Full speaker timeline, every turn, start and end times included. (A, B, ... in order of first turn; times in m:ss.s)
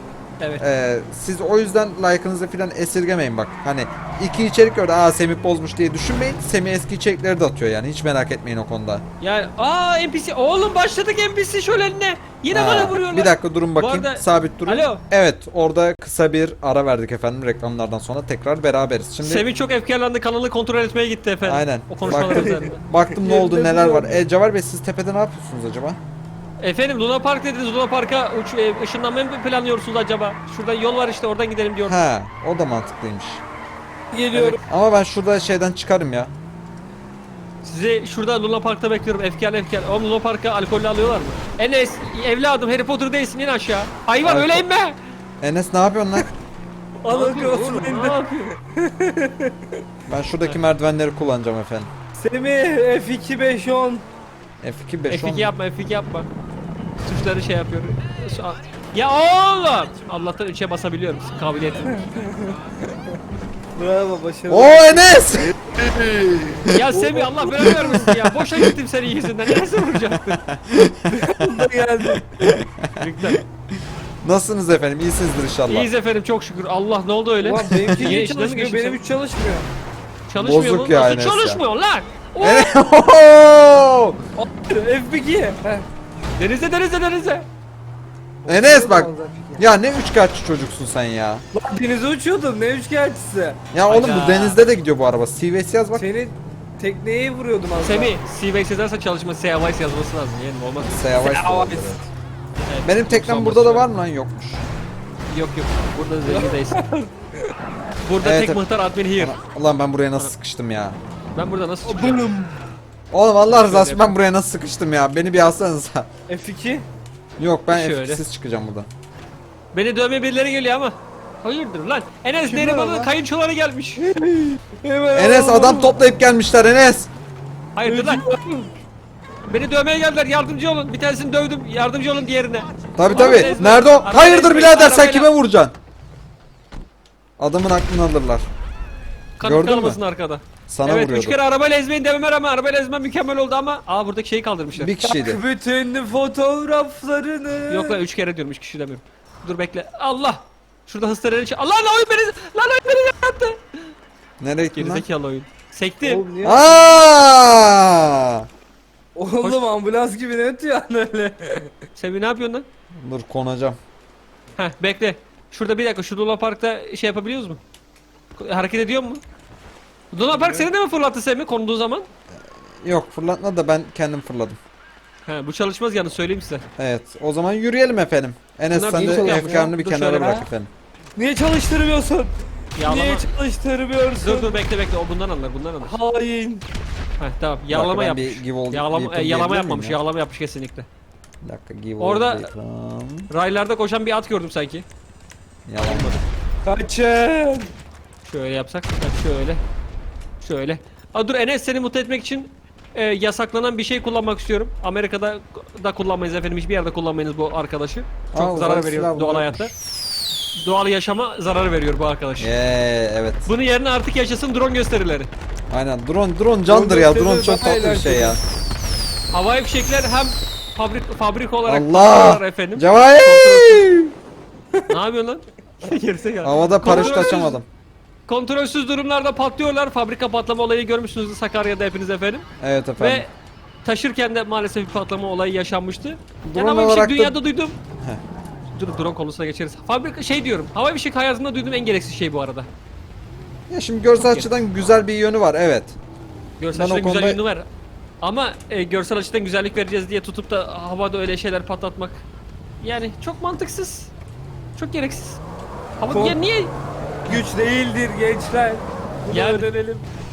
0:00.4-0:00.6 A
0:00.6-0:09.0 B
0:09.2-0:15.0 A
0:12.5-0:19.4 B
0:19.2-0:22.8 A
0:21.4-0:26.0 B
0:22.0-0:24.2 C
0:26.6-0:32.0 A
0:31.8-0:33.4 B
0:34.1-0:34.6 C
0:34.3-0:34.6 A
0:34.6-0:36.3 B
0:37.6-0:45.0 A
0:44.2-0:44.6 B
0:45.4-0:46.3 B
0:47.0-0:48.5 A
0:47.0-0:49.5 C
0:50.1-0:51.9 B
0:52.1-0:54.0 C
0:54.6-0:55.5 B
0:55.1-0:56.3 A
0:57.0-1:02.1 A
1:01.8-1:02.6 C
1:03.8-1:05.1 C
1:04.5-1:06.8 B
1:06.7-1:10.4 A
1:06.9-1:08.1 C
1:07.6-1:08.7 B
1:10.4-1:13.4 B
1:11.1-1:12.3 C
1:12.9-1:13.4 A
1:14.2-1:15.9 B
1:15.7-1:19.0 A
1:17.4-1:19.7 C
1:17.7-1:18.2 B
1:20.3-1:22.8 A
1:20.4-1:21.6 B
1:22.4-1:24.2 B
1:24.4-1:25.8 C
1:26.4-1:27.5 A
1:28.4-1:29.7 C
1:28.4-1:31.4 B
1:31.5-1:33.6 C
1:33.7-1:36.0 B
1:33.8-1:34.6 A
1:35.9-1:38.1 C
1:37.8-1:41.1 A
1:40.8-1:42.0 B
1:41.1-1:42.0 C
1:42.6-1:43.9 A
1:42.8-1:44.7 B
1:45.3-1:46.8 A
1:46.2-1:47.1 C
1:48.0-1:49.4 A
1:48.2-1:48.6 B
1:49.2-1:51.0 B
1:51.3-1:52.3 A
1:51.8-1:52.6 C
1:53.1-1:56.1 B
1:53.4-1:54.1 A
1:56.3-1:56.8 C
1:57.4-1:58.9 B
1:57.7-1:58.2 A
1:59.7-2:04.0 A
2:02.4-2:03.1 C
2:04.0-2:06.0 C
2:05.1-2:07.1 B
2:07.7-2:08.3 A
2:07.8-2:08.7 C
2:09.5-2:15.3 A
2:13.0-2:15.7 B
2:13.2-2:13.6 C
2:17.4-2:18.4 B
2:19.4-2:24.9 A
2:19.4-2:20.0 B
2:20.7-2:21.4 B
2:24.7-2:25.4 B
2:25.0-2:28.0 C
2:27.7-2:33.9 A
2:34.4-2:35.0 B
2:34.7-2:36.3 A
2:36.0-2:37.0 C
2:36.4-2:38.5 B
2:39.1-2:41.7 C
2:39.4-2:39.7 A
2:42.0-2:42.7 A
2:43.0-2:43.8 B
2:44.6-2:47.6 A
2:48.4-2:49.2 A
2:50.1-2:52.1 A
2:50.3-2:50.7 C
2:52.8-2:54.6 B
2:55.2-2:56.6 A
2:56.8-3:00.7 B
2:58.7-3:00.5 A
2:59.0-2:59.7 C
3:01.2-3:04.6 C
3:02.8-3:03.3 A
3:04.2-3:06.0 A
3:05.8-3:06.6 C
3:07.2-3:10.9 A
3:07.7-3:10.0 B
3:11.4-3:13.3 B
3:12.0-3:12.5 A
3:13.3-3:14.8 A
3:15.6-3:16.2 B
3:15.8-3:16.2 A
3:16.6-3:17.7 C
3:18.2-3:19.6 A
3:20.4-3:29.7 A
3:28.3-3:29.7 B
3:30.6-3:32.5 A
3:32.4-3:33.5 B
3:33.4-3:35.3 A
3:35.7-3:38.4 B
3:36.6-3:38.4 C
3:39.3-3:43.9 A
3:41.6-3:44.1 B
3:44.9-3:47.6 A
3:46.4-3:47.6 B
3:46.9-3:47.4 C
3:48.3-3:52.4 A
3:52.6-3:53.2 B
3:53.0-3:53.3 A
3:53.8-3:57.8 A
3:56.4-3:57.4 B
3:58.7-4:02.7 A
4:03.7-4:06.0 B
4:04.1-4:04.5 A
4:06.6-4:07.7 A
4:06.7-4:07.4 B
4:08.2-4:12.2 A
4:12.8-4:14.1 A
4:14.7-4:15.4 A
4:16.0-4:16.7 A
4:16.1-4:16.4 C
4:17.2-4:20.1 C
4:19.3-4:19.7 A